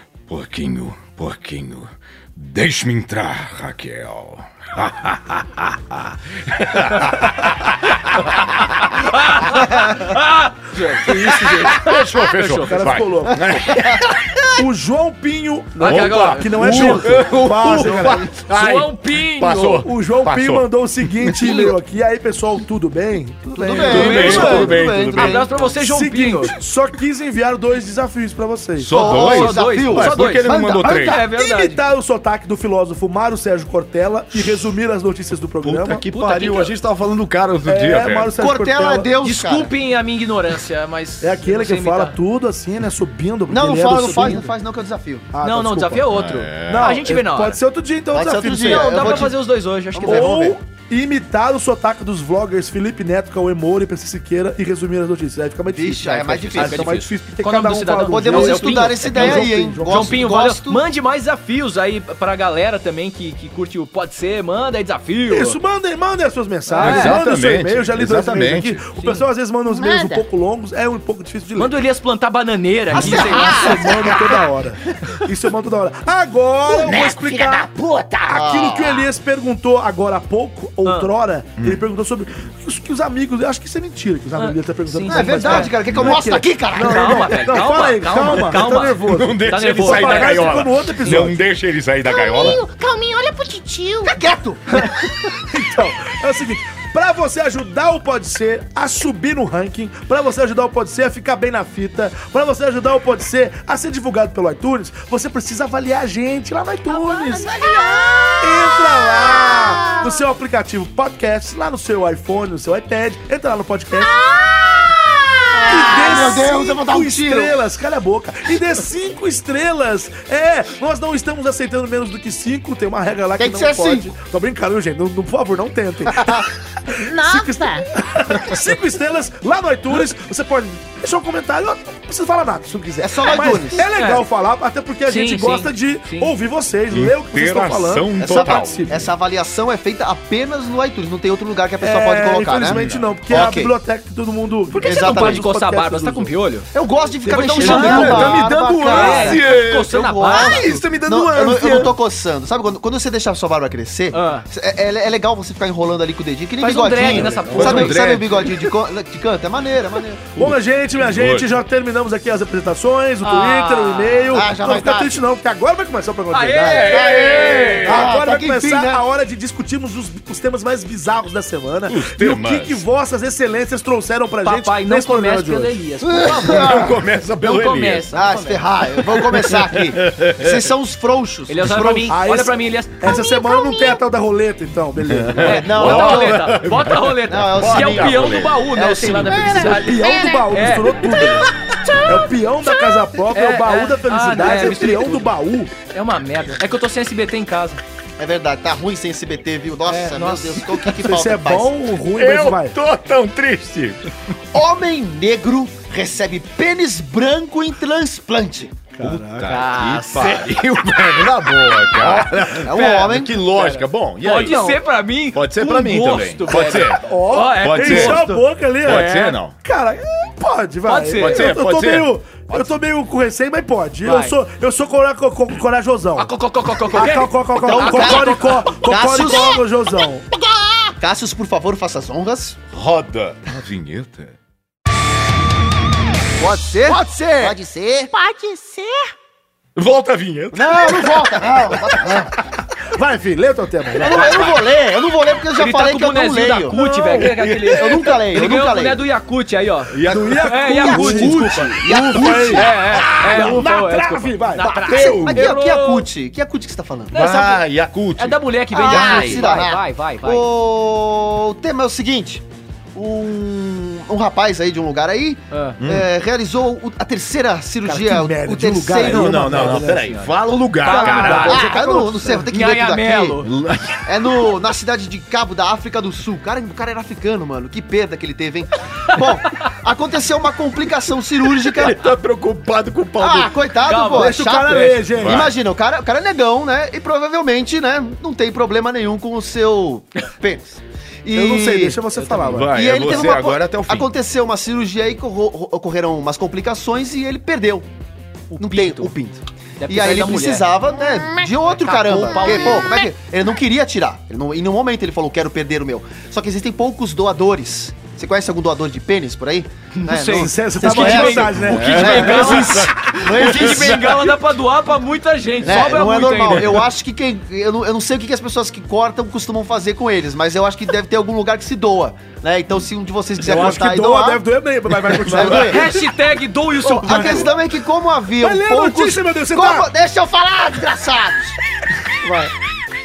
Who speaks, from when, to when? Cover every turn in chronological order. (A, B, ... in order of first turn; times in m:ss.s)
0:00.3-0:09.0 A
0:08.9-0:13.0 B
0:11.1-0:14.5 A
0:12.6-0:13.6 C
0:13.3-0:14.0 D
0:14.6-0:18.3 C
0:15.8-0:19.8 B
0:15.8-0:21.6 A
0:17.8-0:18.2 D
0:19.6-0:24.8 C
0:21.4-0:21.7 B
0:23.5-0:25.6 D
0:23.8-0:25.5 A
0:23.8-0:26.6 B
0:25.8-0:28.9 C
0:28.8-0:31.2 A
0:28.9-0:31.0 D
0:29.0-0:31.8 B
0:30.8-0:36.0 C
0:35.6-0:38.4 A
0:36.1-0:36.7 B
0:37.6-0:39.1 C
0:38.4-0:39.7 D
0:39.2-0:42.2 B
0:41.2-0:44.5 C
0:43.5-0:45.3 D
0:45.3-0:46.1 C
0:45.4-0:47.6 B
0:46.1-0:47.0 A
0:46.6-0:49.3 C
0:48.1-0:49.4 D
0:48.6-0:50.4 B
0:49.9-0:50.6 D
0:50.0-1:00.2 C
0:55.7-0:56.9 D
0:56.6-1:05.6 B
0:58.1-1:00.8 D
1:05.3-1:11.8 C
1:06.7-1:07.2 B
1:06.8-1:08.8 A
1:09.0-1:09.2 B
1:09.7-1:10.2 E
1:11.6-1:14.1 B
1:13.0-1:17.7 C
1:13.0-1:14.4 E
1:13.0-1:14.2 D
1:16.7-1:18.4 E
1:18.3-1:31.4 C
1:18.3-1:19.0 D
1:20.8-1:21.1 B
1:24.4-1:25.7 B
1:25.1-1:27.6 D
1:25.9-1:26.2 A
1:26.8-1:30.7 B
1:28.1-1:32.6 A
1:32.0-1:34.2 E
1:34.0-1:35.0 D
1:35.5-1:47.6 C
1:46.9-1:50.2 E
1:48.4-1:54.2 C
1:54.0-1:56.4 E
1:55.5-1:57.6 D
1:55.7-2:18.9 C
2:03.4-2:04.1 D
2:06.1-2:06.5 D
2:06.9-2:07.9 E
2:13.0-2:13.9 D
2:13.9-2:14.2 B
2:15.1-2:16.3 B
2:16.9-2:19.1 A
2:18.2-2:23.7 D
2:21.8-2:26.3 C
2:22.6-2:23.2 A
2:24.7-2:26.7 B
2:24.8-2:25.5 D
2:26.7-2:40.2 D
2:27.2-2:30.7 B
2:27.5-2:31.9 A
2:27.8-2:28.0 C
2:34.1-2:34.5 B
2:36.6-2:38.2 B
2:37.0-2:38.7 A
2:37.1-2:37.7 C
2:40.4-2:41.5 A
2:40.4-2:46.9 C
2:43.2-2:44.4 B
2:44.3-2:45.2 D
2:46.3-2:47.8 B
2:46.6-2:48.1 A
2:46.9-2:49.0 D
2:47.8-2:55.8 C
2:51.9-2:52.8 A
2:54.4-2:58.6 B
2:56.0-2:57.0 D
2:56.2-2:58.1 A
2:58.1-3:02.2 D
2:59.0-3:00.7 A
3:01.5-3:03.1 B
3:02.1-3:05.7 C
3:03.0-3:04.0 E
3:05.0-3:08.6 A
3:05.4-3:06.5 D
3:05.4-3:11.2 B
3:07.3-3:09.8 D
3:09.3-3:10.5 E
3:09.5-3:11.5 C
3:11.0-3:12.2 E
3:12.0-3:15.7 C
3:13.3-3:15.3 B
3:15.9-3:17.8 B
3:18.2-3:21.7 D
3:19.9-3:20.8 B
3:21.0-3:22.8 C
3:22.1-3:24.0 A
3:24.5-3:28.8 D
3:28.9-3:29.7 C
3:29.0-3:38.3 A
3:29.4-3:30.6 B
3:32.0-3:33.4 D
3:32.7-3:39.4 B
3:34.4-3:34.8 C
3:36.7-3:46.3 C
3:38.8-3:39.6 A
3:40.9-3:41.6 B
3:41.2-3:42.1 A
3:44.0-3:44.4 B
3:46.2-3:48.7 B
3:46.9-3:50.3 C
3:47.6-3:49.6 D
3:49.2-3:49.6 E
3:50.4-3:50.9 E
3:51.0-3:52.6 D
3:52.7-3:54.4 A
3:56.4-3:58.1 D
3:57.4-3:59.1 E
3:59.8-4:02.3 A
4:00.5-4:02.3 D
4:02.9-4:04.5 C
4:04.0-4:06.8 D
4:04.2-4:04.5 A
4:05.6-4:16.1 B
4:06.7-4:07.4 C
4:07.2-4:08.1 A
4:07.7-4:09.0 D
4:09.9-4:13.7 A
4:10.0-4:14.7 C
4:11.8-4:12.8 D
4:14.6-4:15.5 A
4:14.8-4:17.2 D
4:17.1-4:17.6 B
4:17.1-4:19.6 A
4:18.2-4:20.5 B
4:18.7-4:22.4 D
4:23.0-4:29.7 D
4:25.5-4:25.8 B
4:25.8-4:26.1 A
4:27.8-4:30.1 C
4:29.0-4:31.7 A
4:29.5-4:31.8 B
4:30.8-4:32.4 C
4:31.3-4:33.4 D
4:32.3-4:33.5 B
4:33.4-4:34.5 A
4:34.0-4:42.0 D
4:39.1-4:39.6 B
4:41.6-4:43.6 A
4:43.2-4:52.0 D
4:43.8-4:45.0 B
4:44.1-4:45.5 C
4:45.1-4:45.5 A
4:51.3-4:53.0 C
4:52.1-4:52.6 B
4:52.4-4:54.1 A
4:52.7-4:57.9 D
4:58.5-4:59.1 B
4:58.6-5:14.3 D
4:59.8-5:00.7 B
5:01.0-5:01.5 E
5:01.8-5:03.0 B
5:02.2-5:03.1 E
5:10.0-5:16.8 B
5:10.3-5:12.4 C
5:11.6-5:14.2 A
5:15.6-5:24.4 D
5:23.4-5:26.0 C
5:25.2-5:25.9 D
5:25.5-5:27.5 B
5:26.8-5:27.6 C
5:27.0-5:31.6 D
5:28.4-5:29.9 C
5:32.1-5:32.5 D